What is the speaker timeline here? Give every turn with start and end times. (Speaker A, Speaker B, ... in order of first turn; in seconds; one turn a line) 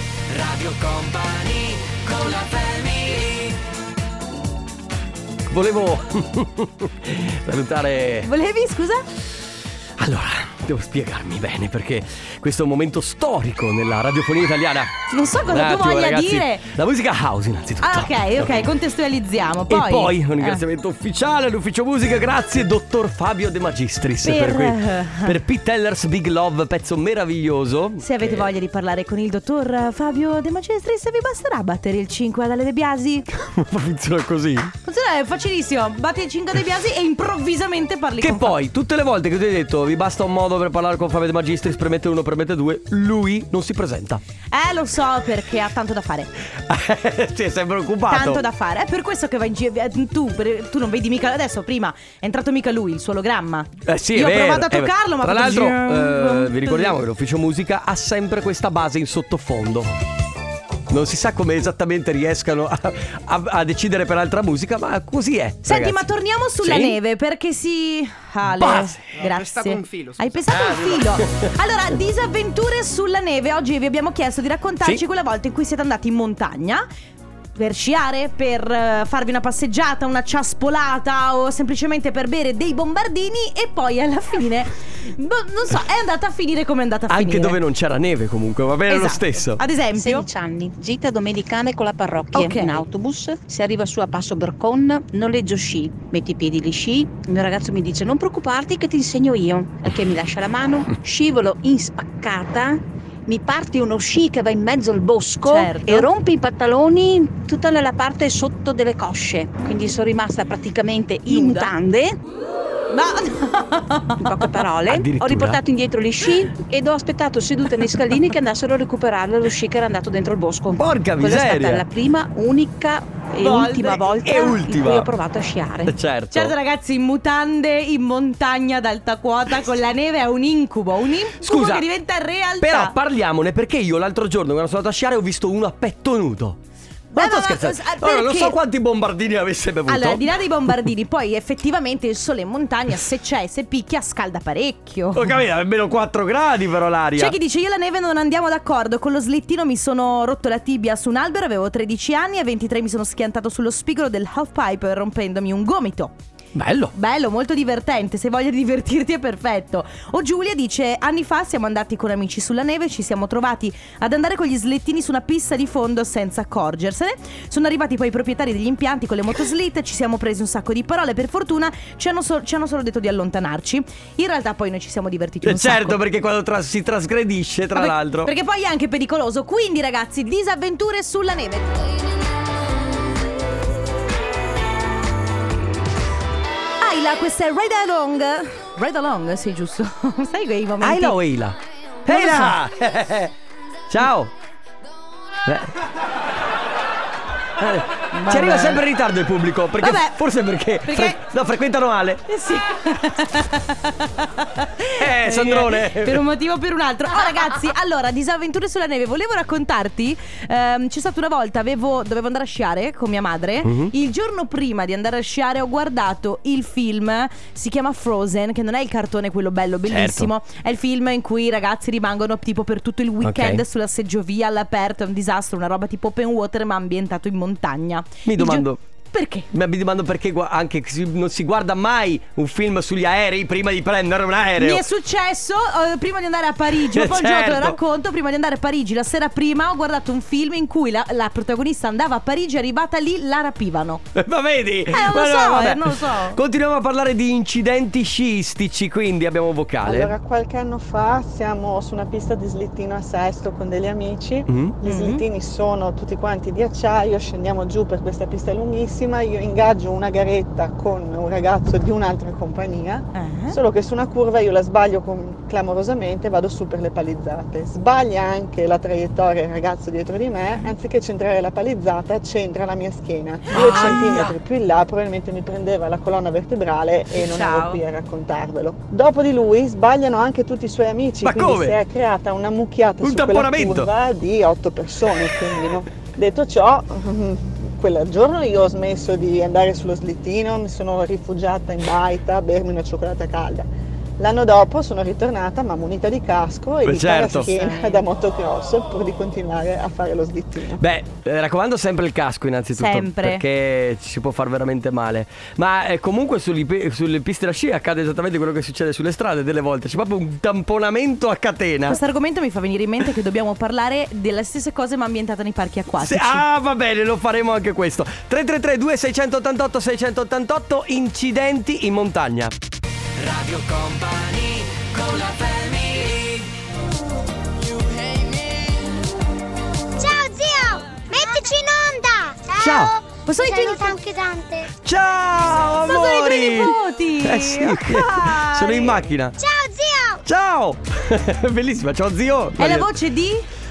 Speaker A: 0.3-3.6
Speaker B: 5.5-8.3
Speaker C: 8.2-9.1
Speaker B: 10.0-14.9
Speaker C: 15.1-16.7
Speaker B: 15.5-18.6
Speaker C: 17.8-20.6
Speaker B: 19.7-28.5
Speaker C: 24.2-25.4
Speaker C: 28.0-33.3
Speaker B: 33.3-34.7
Speaker C: 34.9-38.5
Speaker B: 38.2-44.2
Speaker C: 44.5-46.3
Speaker B: 46.6-48.4
Speaker C: 48.1-57.0
Speaker B: 53.9-59.9
Speaker B: 60.9-66.1
Speaker C: 65.7-76.8
Speaker B: 66.6-67.0
Speaker B: 68.5-69.2
Speaker B: 70.5-71.5
Speaker C: 77.6-87.6
Speaker B: 87.1-89.6
Speaker C: 88.9-90.3
Speaker D: 89.9-112.2
Speaker C: 92.3-92.8
Speaker C: 105.5-106.1
Speaker C: 111.3-111.7
Speaker C: 112.9-114.6
Speaker D: 114.2-126.0
Speaker B: 114.9-115.6
Speaker B: 120.7-121.8
Speaker C: 123.4-124.1
Speaker B: 124.2-125.1
Speaker B: 125.9-126.5
Speaker C: 126.3-132.9
Speaker B: 131.4-131.9
Speaker B: 132.6-136.6
Speaker C: 137.1-138.6
Speaker B: 137.1-140.7
Speaker C: 139.9-145.4
Speaker B: 145.1-147.3
Speaker C: 147.2-156.1
Speaker B: 156.6-156.9
Speaker C: 156.9-176.0
Speaker B: 175.4-178.3
Speaker C: 177.7-181.9
Speaker C: 186.8-191.2
Speaker B: 190.8-193.3
Speaker C: 192.1-192.6
Speaker B: 193.9-194.3
Speaker B: 195.5-195.8
Speaker B: 197.6-202.2
Speaker C: 198.1-198.8
Speaker C: 199.8-200.2
Speaker C: 200.8-201.2
Speaker C: 202.3-229.5
Speaker B: 205.0-206.2
Speaker B: 213.6-213.9
Speaker B: 219.9-220.3
Speaker B: 223.2-223.6
Speaker B: 228.3-228.8
Speaker B: 229.5-234.8
Speaker C: 234.6-244.0
Speaker B: 236.7-237.8
Speaker B: 244.2-250.1
Speaker C: 244.9-246.4
Speaker E: 249.8-293.7
Speaker B: 254.5-254.8
Speaker C: 254.8-255.2
Speaker C: 263.1-263.6
Speaker C: 273.5-274.3
Speaker B: 273.5-274.2
Speaker C: 277.1-277.8
Speaker B: 281.2-281.8
Speaker B: 283.0-283.9
Speaker E: 294.2-300.8
Speaker B: 296.8-297.5
Speaker C: 297.5-298.1
Speaker B: 300.8-312.0
Speaker C: 302.8-303.4
Speaker C: 311.9-316.4
Speaker B: 316.0-322.5
Speaker A: 323.2-326.5
Speaker A: 327.7-328.9
Speaker F: 330.0-334.7
Speaker B: 332.6-332.9
Speaker C: 333.3-334.0
Speaker B: 334.8-339.4
Speaker C: 335.8-339.0
Speaker F: 339.4-340.2
Speaker B: 340.3-343.0
Speaker C: 342.6-343.4